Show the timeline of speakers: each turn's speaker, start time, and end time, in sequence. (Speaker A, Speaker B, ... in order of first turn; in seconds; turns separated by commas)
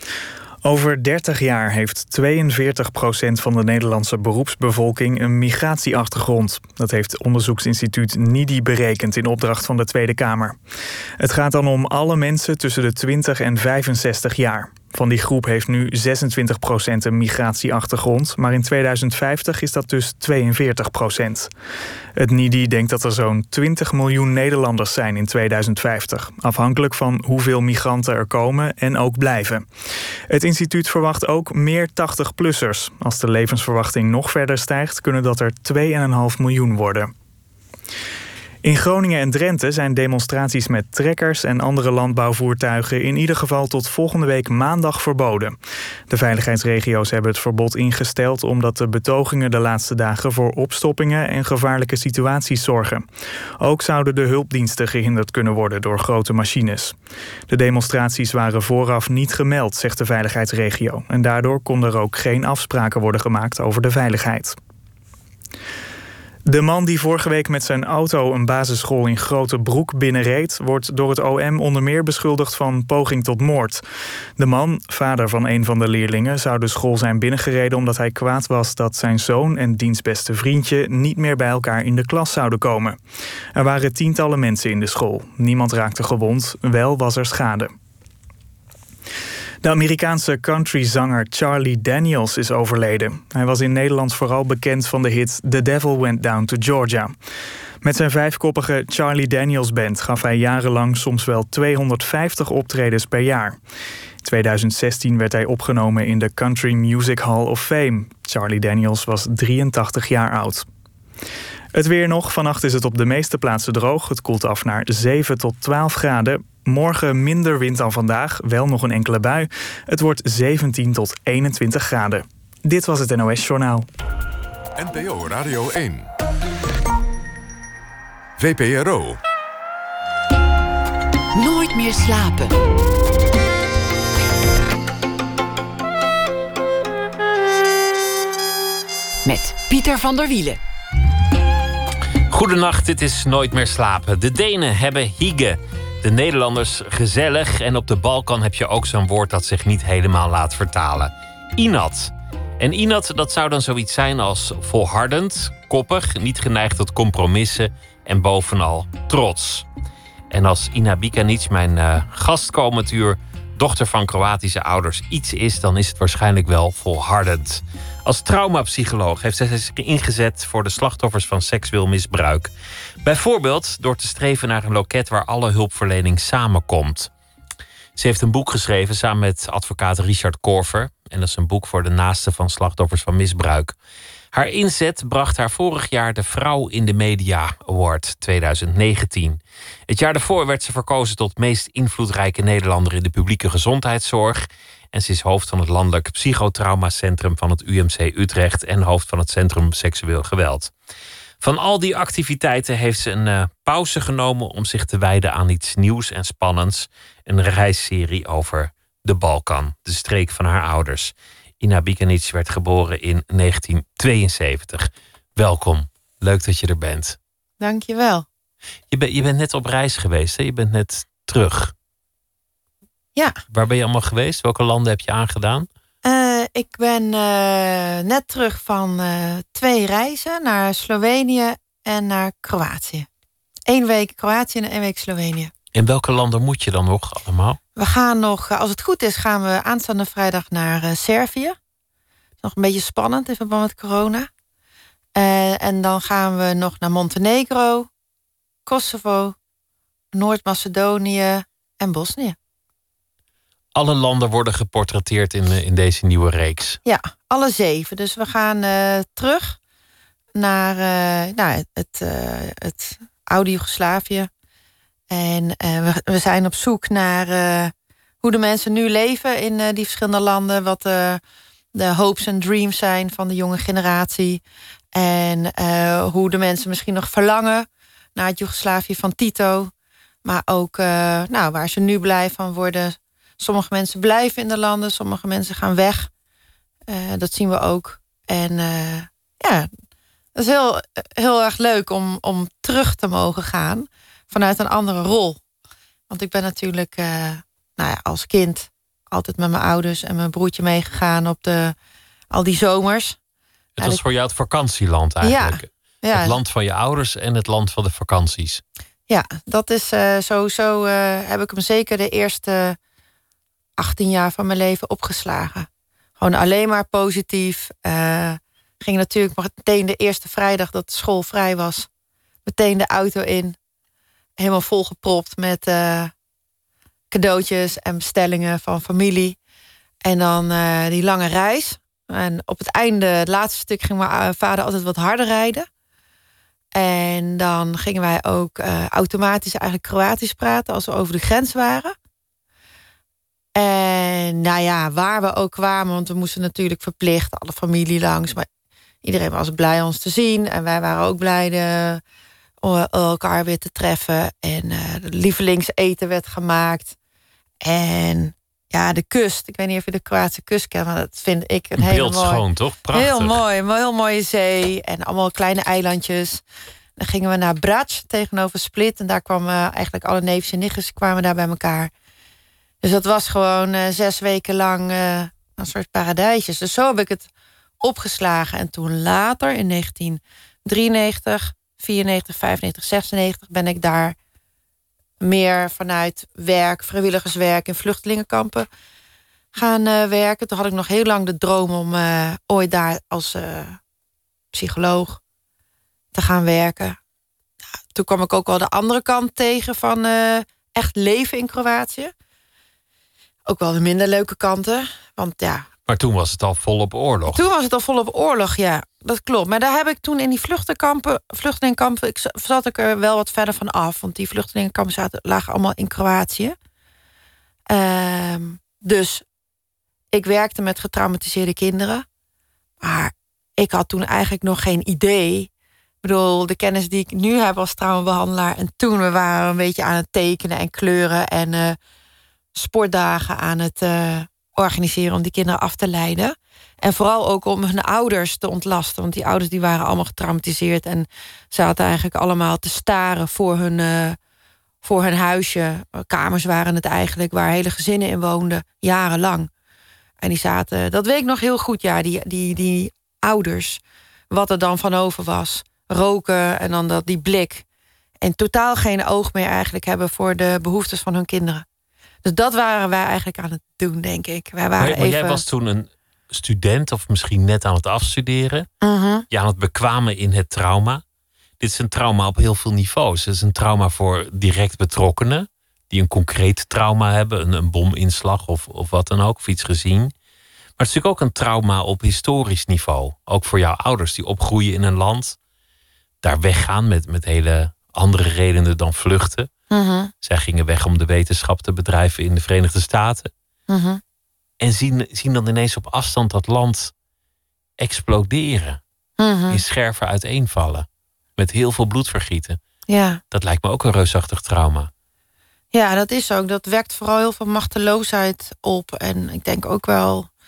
Speaker A: 0.6-10.6, Speaker A: 11.2-21.5, Speaker A: 22.2-29.6, Speaker A: 30.3-37.1, Speaker A: 38.6-45.5, Speaker A: 46.1-53.0, Speaker A: 53.6-56.9, Speaker A: 57.5-64.6, Speaker A: 66.5-73.8, Speaker A: 74.4-83.0, Speaker A: 83.5-87.7, Speaker A: 89.6-97.1, Speaker A: 97.8-103.6, Speaker A: 104.2-110.7, Speaker A: 111.7-123.9, Speaker B: 124.8-126.1, Speaker B: 128.4-129.2, Speaker C: 131.3-132.6, Speaker C: 139.2-140.6, Speaker D: 142.3-159.7, Speaker D: 160.3-172.5, Speaker D: 173.0-177.1, Speaker D: 177.9-183.8, Speaker D: 184.3-200.7, Speaker D: 201.4-217.2, Speaker E: 217.6-218.2, Speaker D: 218.9-221.7, Speaker D: 223.5-225.7, Speaker E: 226.0-233.1, Speaker E: 233.7-235.5, Speaker D: 235.7-237.6, Speaker E: 237.8-241.6, Speaker E: 242.4-244.3, Speaker E: 245.2-247.9, Speaker E: 248.7-249.3, Speaker E: 250.1-252.3, Speaker D: 253.7-256.8, Speaker E: 256.8-259.6, Speaker E: 260.4-264.3, Speaker E: 265.1-271.2, Speaker E: 271.7-274.4, Speaker E: 274.9-279.7, Speaker E: 280.2-286.1, Speaker E: 286.9-289.7, Speaker E: 290.3-295.4, Speaker E: 296.1-301.7, Speaker E: 302.3-303.2, Speaker D: 303.8-308.6, Speaker E: 305.2-306.4, Speaker E: 309.1-312.8, Speaker E: 313.8-315.7, Speaker E: 316.2-321.9, Speaker E: 322.4-323.6, Speaker E: 324.4-326.1, Speaker E: 327.1-329.4, Speaker E: 330.0-335.7, Speaker E: 336.7-341.9, Speaker E: 343.6-348.4, Speaker E: 349.0-352.0, Speaker E: 352.6-356.9, Speaker E: 357.6-366.4, Speaker D: 361.8-363.4, Speaker E: 367.0-371.9, Speaker E: 372.8-377.3, Speaker E: 377.8-384.1, Speaker E: 385.2-388.7, Speaker E: 389.5-393.8, Speaker E: 394.5-395.2, Speaker E: 396.1-397.0, Speaker E: 397.9-402.1, Speaker E: 403.5-405.7, Speaker D: 405.9-407.4, Speaker E: 407.3-416.6, Speaker E: 417.7-419.2, Speaker E: 420.1-422.0, Speaker E: 422.8-425.5, Speaker E: 426.0-431.8, Speaker E: 432.5-444.2, Speaker E: 444.8-449.5, Speaker E: 450.2-457.6, Speaker E: 458.2-461.6, Speaker E: 462.2-465.4, Speaker D: 464.8-468.7, Speaker E: 468.8-469.2, Speaker D: 469.3-471.0, Speaker D: 471.6-480.1, Speaker D: 480.8-485.4, Speaker D: 486.2-489.5, Speaker E: 489.7-490.1, Speaker D: 490.2-493.3, Speaker E: 493.7-494.0, Speaker D: 494.6-496.9, Speaker D: 497.8-498.8, Speaker E: 499.2-499.6, Speaker D: 499.5-502.6, Speaker E: 502.9-503.2, Speaker D: 503.3-504.9, Speaker E: 505.7-510.3